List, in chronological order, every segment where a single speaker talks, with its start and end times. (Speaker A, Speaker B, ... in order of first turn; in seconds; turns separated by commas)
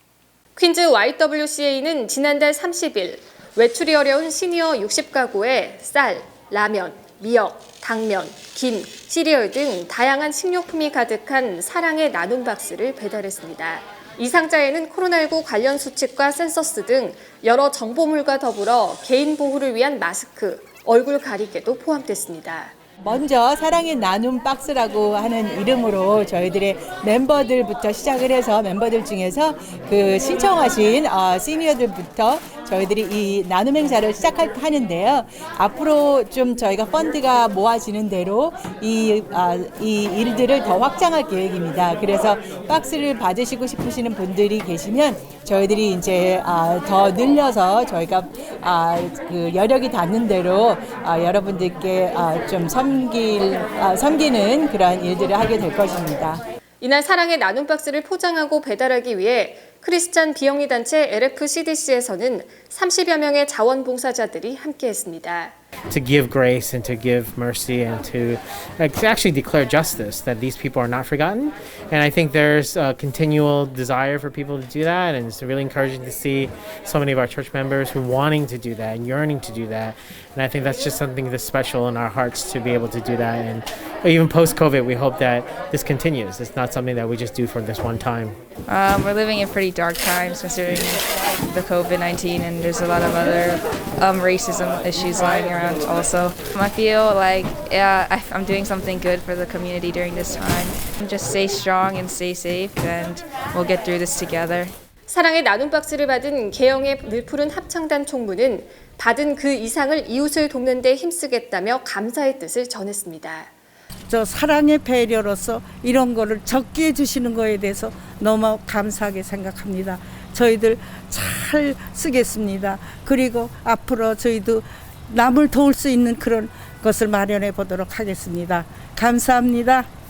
Speaker A: 0.6-22.7, Speaker B: 23.0-56.4, Speaker A: 56.8-65.5, Speaker C: 65.9-88.3, Speaker D: 88.7-104.7, Speaker A: 105.1-113.5, Speaker E: 114.1-129.9